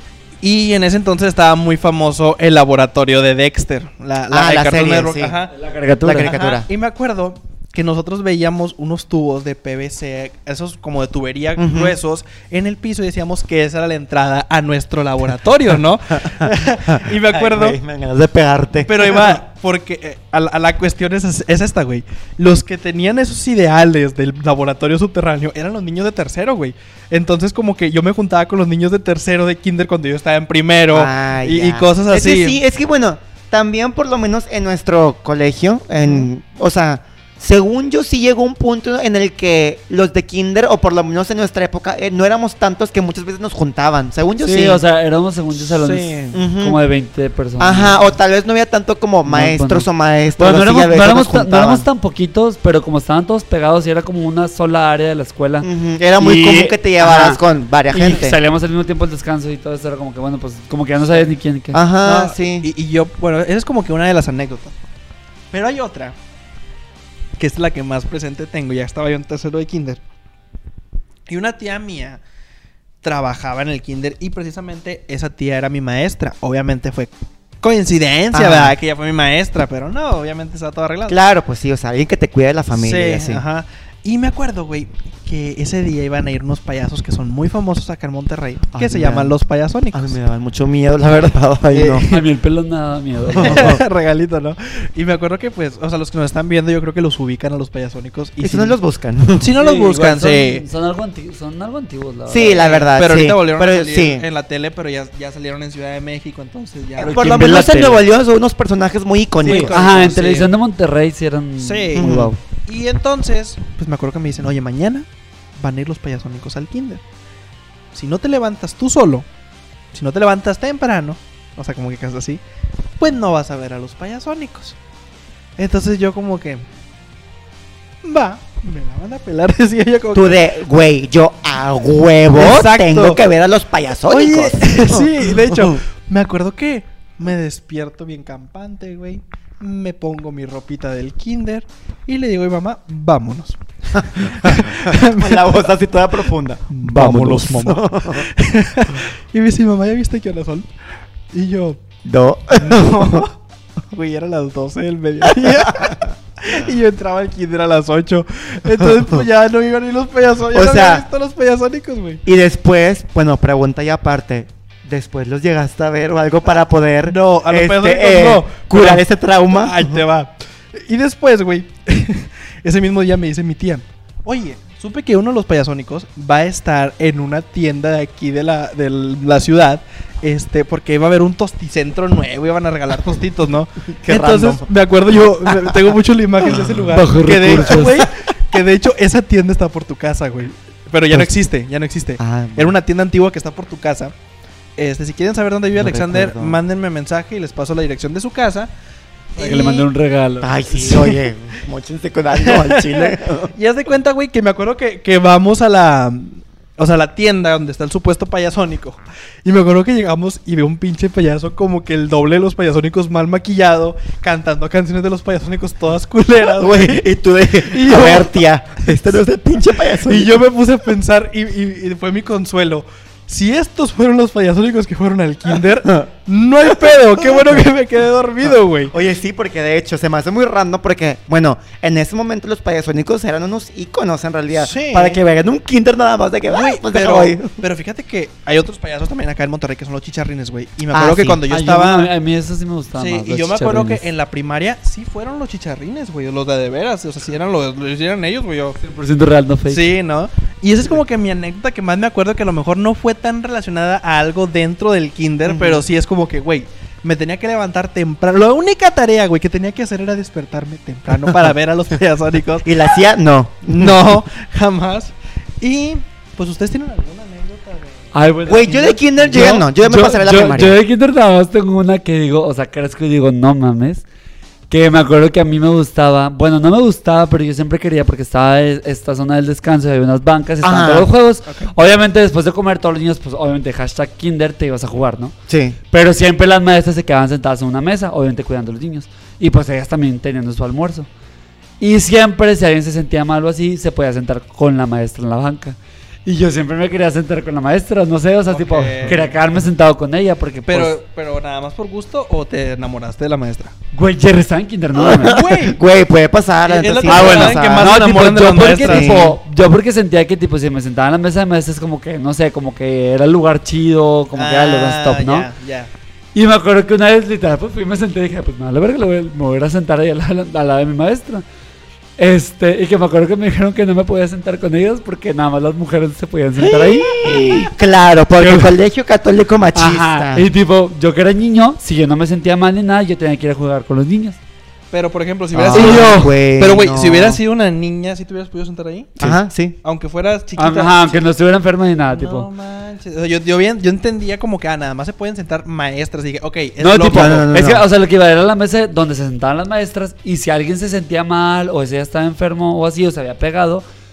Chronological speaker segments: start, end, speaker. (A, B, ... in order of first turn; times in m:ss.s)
0:00.4-0:05.5 A
0:04.3-0:05.4 B
0:05.5-0:06.3 C
0:06.0-0:06.6 B
0:06.1-0:17.8 A
0:11.6-0:12.0 B
0:16.2-0:19.4 B
0:18.8-0:32.6 A
0:30.9-0:44.8 B
0:44.4-0:48.0 C
0:45.8-0:46.2 A
0:46.3-0:46.8 B
0:47.6-0:51.8 B
0:49.2-0:55.7 C
0:55.6-0:58.4 B
0:56.2-1:01.8 C
1:01.7-1:02.7 B
1:02.0-1:04.8 A
1:05.5-1:06.1 A
1:07.4-1:10.0 A
1:11.3-1:12.2 A
1:13.0-1:21.2 A
1:18.3-1:18.8 B
1:21.1-1:23.4 B
1:22.7-1:30.1 A
1:28.7-1:29.3 B
1:29.9-1:32.0 B
1:31.7-1:32.2 A
1:32.1-1:33.8 C
1:33.3-1:33.8 B
1:33.3-1:38.8 A
1:38.4-1:39.5 B
1:39.4-1:40.6 A
1:39.6-1:42.6 C
1:42.3-1:44.2 B
1:42.5-1:47.3 A
1:47.0-1:49.7 B
1:47.0-1:48.0 C
1:49.4-1:50.5 A
1:49.5-1:52.4 C
1:51.6-1:55.1 A
1:51.9-1:52.3 B
1:55.6-1:57.0 A
1:57.9-1:59.2 A
1:59.9-2:02.4 A
2:03.0-2:04.8 A
2:05.6-2:06.6 A
2:08.0-2:10.4 A
2:10.1-2:15.8 B
2:12.3-2:13.2 A
2:14.1-2:25.6 A
2:24.0-2:28.3 B
2:26.7-2:30.7 A
2:31.3-2:31.8 A
2:32.0-2:33.2 B
2:32.6-2:33.3 A
2:33.9-2:42.2 A
2:35.2-2:36.1 B
2:38.8-2:39.2 B
2:40.5-2:41.0 B
2:42.2-2:50.0 B
2:47.0-3:14.1 A
3:04.0-3:04.7 B
3:05.4-3:05.8 B
3:06.5-3:06.8 B
3:06.9-3:08.1 C
3:07.7-3:08.1 B
3:12.2-3:12.7 B
3:14.8-3:18.7 A
3:15.8-3:16.6 B
3:19.4-3:19.8 A
3:19.4-3:20.8 C
3:20.4-3:23.5 B
3:20.8-3:21.2 A
3:22.4-3:37.0 A
3:36.4-3:40.4 B
3:37.6-3:38.3 A
3:40.0-3:48.9 A
3:46.8-3:47.6 B
3:48.9-3:57.6 B
3:54.6-3:55.2 A
3:56.5-4:02.1 A
4:00.9-4:01.4 B
4:01.5-4:04.0 C
4:03.0-4:08.8 A
4:08.8-4:09.8 C
4:09.7-4:22.8 A
4:15.4-4:15.8 B
4:22.6-4:24.1 B
4:23.7-4:29.6 A
4:28.1-4:34.0 C
4:28.5-4:30.7 B
4:34.7-4:45.3 C
4:40.6-4:41.1 B
4:45.5-4:45.8 B
4:45.9-4:51.1 C
4:51.8-5:00.9 C
4:58.5-4:59.3 A
5:00.6-5:03.7 A
5:03.9-5:05.4 C
5:05.0-5:07.9 B
5:05.2-5:05.8 A
5:06.6-5:09.2 A
5:07.0-5:15.5 C
5:08.8-5:09.4 B
5:14.4-5:15.9 A
5:16.3-5:21.4 C
5:22.2-5:27.7 C
5:26.6-5:30.5 B
5:28.4-5:28.7 C
5:29.7-5:34.4 C
5:34.9-5:39.3 A
5:35.5-5:37.4 B
5:35.7-5:36.3 C
5:39.2-5:39.8 B
5:39.8-5:41.2 A
5:40.6-5:42.5 C
5:42.1-5:47.5 A
5:46.8-5:53.8 C
5:47.1-5:47.8 B